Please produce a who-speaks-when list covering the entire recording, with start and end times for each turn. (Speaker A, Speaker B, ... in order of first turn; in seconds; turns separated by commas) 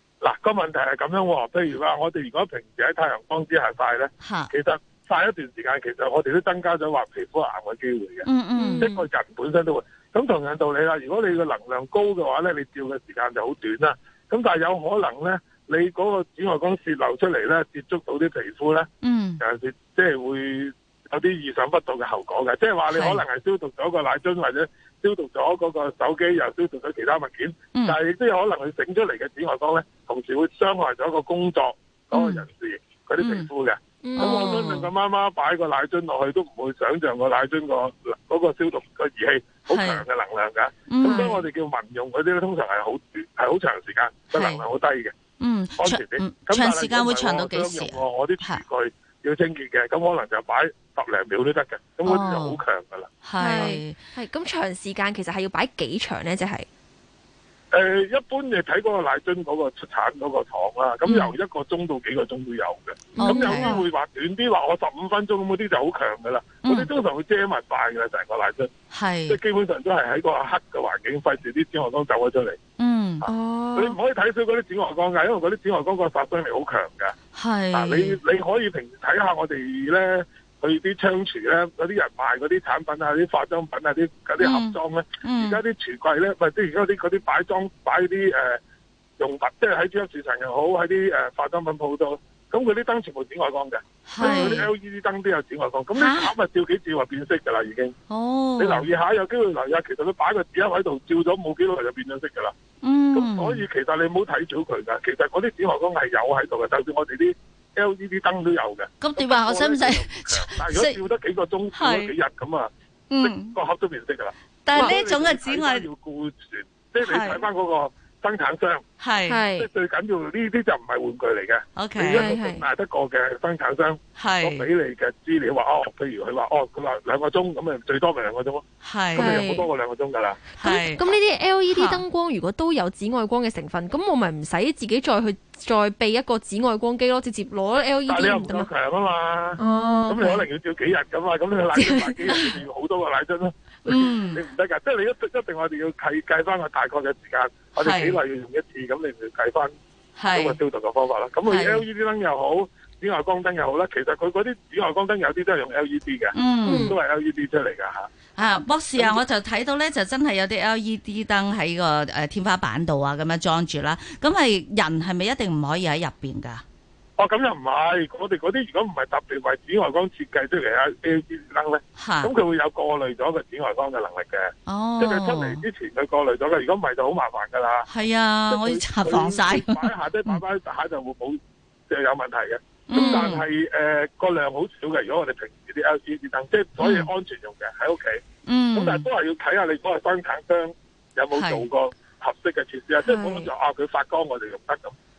Speaker A: 0.2-8.3, Speaker B: 4.2-4.5, Speaker B: 8.2-8.9, Speaker C: 8.5-8.9, Speaker A: 8.8-18.9, Speaker B: 19.0-19.4, Speaker A: 19.4-45.1, Speaker B: 22.9-23.2, Speaker B: 32.1-32.4, Speaker B: 33.2-33.5, Speaker C: 34.0-34.6, Speaker B: 34.2-34.9, Speaker B: 39.7-40.0, Speaker B: 40.9-41.3, Speaker B: 44.3-44.6, Speaker B: 45.4-48.6, Speaker A: 45.8-53.2, Speaker B: 52.0-52.6, Speaker B: 53.2-54.0, Speaker C: 53.4-56.7, Speaker A: 57.7-68.7, Speaker B: 61.0-61.3, Speaker C: 63.1-63.8, Speaker B: 63.2-63.8, Speaker B: 66.6-66.9, Speaker B: 68.9-69.3, Speaker A: 69.3-72.6, Speaker B: 72.8-73.2, Speaker A: 73.2-77.2, Speaker C: 73.2-74.0, Speaker B: 77.3-78.2, Speaker A: 77.7-88.6, Speaker B: 84.4-85.6, Speaker A: 89.2-97.9, Speaker B: 94.0-94.7, Speaker B: 95.9-96.3, Speaker B: 98.1-98.8, Speaker A: 98.6-102.5, Speaker B: 102.8-103.7, Speaker A: 103.1-112.7, Speaker B: 109.0-111.0, Speaker B: 111.7-112.1, Speaker B: 113.1-113.5, Speaker A: 113.2-114.3, Speaker B: 114.7-115.9, Speaker A: 115.0-118.8, Speaker B: 117.0-117.4, Speaker B: 119.0-119.4, Speaker C: 119.3-119.7, Speaker A: 119.5-128.6, Speaker B: 121.7-122.3, Speaker C: 122.1-122.6, Speaker B: 124.2-124.7, Speaker B: 128.8-129.3, Speaker C: 129.1-129.7, Speaker A: 129.2-130.5, Speaker B: 130.6-131.0, Speaker C: 130.6-138.7, Speaker B: 131.7-132.0, Speaker A: 138.1-149.7, Speaker C: 139.6-140.5, Speaker C: 141.7-142.6, Speaker B: 143.9-144.4, Speaker B: 147.8-148.2, Speaker B: 150.2-150.6, Speaker A: 150.3-158.1, Speaker B: 151.5-151.8, Speaker B: 156.3-156.9, Speaker C: 156.6-156.9, Speaker B: 158.3-166.6, Speaker A: 167.2-177.9, Speaker B: 171.9-172.3, Speaker B: 174.7-175.6, Speaker B: 177.9-180.4, Speaker A: 178.5-194.9, Speaker B: 182.9-183.4, Speaker B: 186.8-187.1, Speaker B: 188.4-189.1, Speaker B: 191.3-191.6, Speaker C: 193.0-193.5